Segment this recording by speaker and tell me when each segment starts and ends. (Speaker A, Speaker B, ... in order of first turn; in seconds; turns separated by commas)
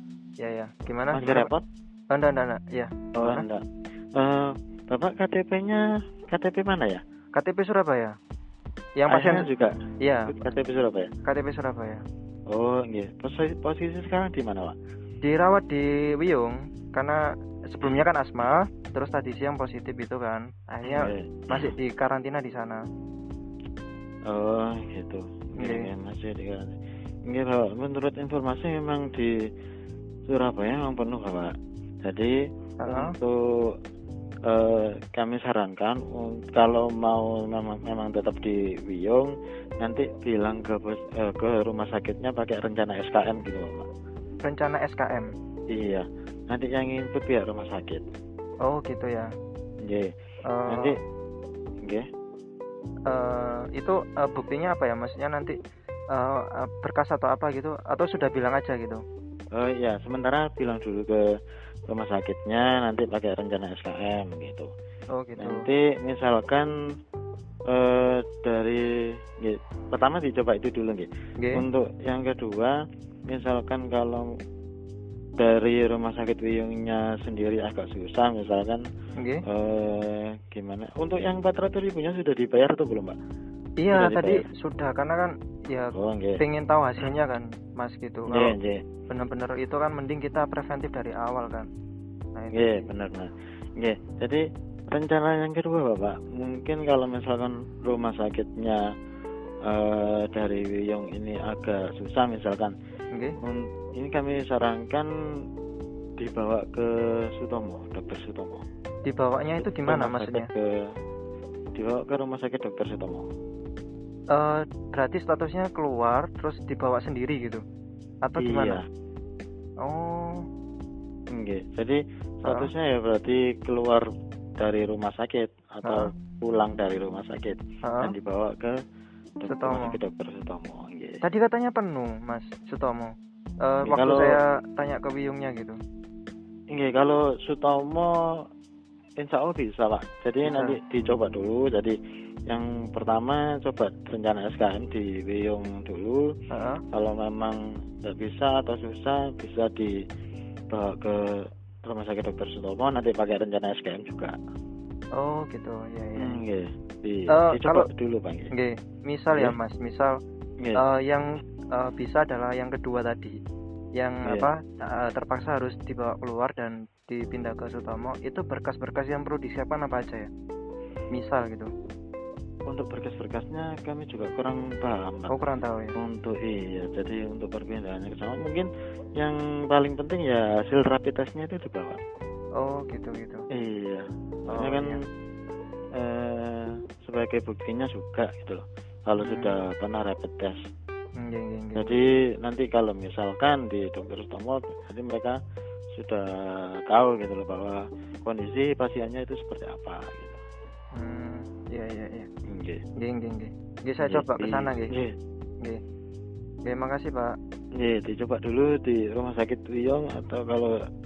Speaker A: 0.4-1.5, Speaker B: 1.1-1.6, Speaker A: 2.1-3.5, Speaker B: 3.2-3.6, Speaker B: 4.2-7.0, Speaker A: 7.3-8.1, Speaker A: 9.0-9.5, Speaker B: 9.1-11.1, Speaker A: 10.0-10.4, Speaker A: 11.2-12.0, Speaker B: 12.5-14.8, Speaker A: 15.2-17.2, Speaker A: 17.7-22.8, Speaker B: 20.9-21.7, Speaker B: 24.3-26.8, Speaker A: 25.6-25.9, Speaker B: 27.3-29.3, Speaker B: 30.3-31.5, Speaker B: 32.0-32.3, Speaker A: 32.8-33.1, Speaker B: 32.9-33.4, Speaker B: 34.5-43.9, Speaker A: 44.4-45.3, Speaker B: 45.7-48.0, Speaker A: 48.7-49.3, Speaker B: 49.8-50.1, Speaker A: 50.5-51.0, Speaker B: 50.7-51.0, Speaker A: 53.1-55.5, Speaker A: 56.1-59.0, Speaker B: 59.5-61.2, Speaker B: 61.9-64.7, Speaker A: 65.1-65.7, Speaker B: 65.4-66.7, Speaker B: 67.7-68.8, Speaker B: 69.4-72.8, Speaker A: 71.4-71.6, Speaker B: 73.3-74.3, Speaker B: 75.4-78.8, Speaker A: 79.2-79.4, Speaker B: 79.5-83.2, Speaker A: 83.8-88.5, Speaker B: 83.9-84.4, Speaker B: 85.9-86.4, Speaker B: 88.3-88.8, Speaker A: 89.1-91.7, Speaker A: 92.4-92.9, Speaker B: 92.5-98.8, Speaker B: 99.7-102.8, Speaker B: 103.4-105.1, Speaker B: 106.2-108.6, Speaker A: 109.0-110.5, Speaker B: 109.6-110.9, Speaker B: 111.8-113.3, Speaker A: 114.3-117.6, Speaker A: 118.2-118.8, Speaker B: 118.4-118.8, Speaker A: 119.8-120.4, Speaker B: 121.3-124.0, Speaker A: 122.5-122.7, Speaker B: 124.6-128.8, Speaker A: 125.8-126.1, Speaker A: 127.8-128.2, Speaker B: 129.4-131.2, Speaker A: 129.5-130.0, Speaker A: 131.2-133.1, Speaker A: 133.7-135.8, Speaker B: 133.8-134.4, Speaker B: 136.7-138.4, Speaker B: 139.2-142.0, Speaker A: 140.4-140.8, Speaker B: 142.5-146.3, Speaker A: 146.5-146.8, Speaker B: 146.9-149.9, Speaker B: 150.7-154.3, Speaker A: 155.2-156.4, Speaker B: 156.2-158.5, Speaker A: 157.3-157.9, Speaker A: 158.5-160.1, Speaker A: 160.8-163.4, Speaker A: 164.0-170.3, Speaker B: 164.2-164.5, Speaker A: 171.1-171.7, Speaker B: 172.7-175.3, Speaker A: 175.3-175.9, Speaker B: 175.9-182.0, Speaker A: 182.6-183.5, Speaker B: 183.5-185.0, Speaker A: 184.5-185.0, Speaker B: 185.9-190.6, Speaker A: 189.2-189.6, Speaker A: 191.2-192.0, Speaker B: 191.8-195.4, Speaker B: 195.9-200.4, Speaker A: 200.9-202.3, Speaker B: 202.5-202.8, Speaker A: 203.0-204.9, Speaker B: 204.0-205.2, Speaker A: 206.7-207.3, Speaker B: 207.8-210.8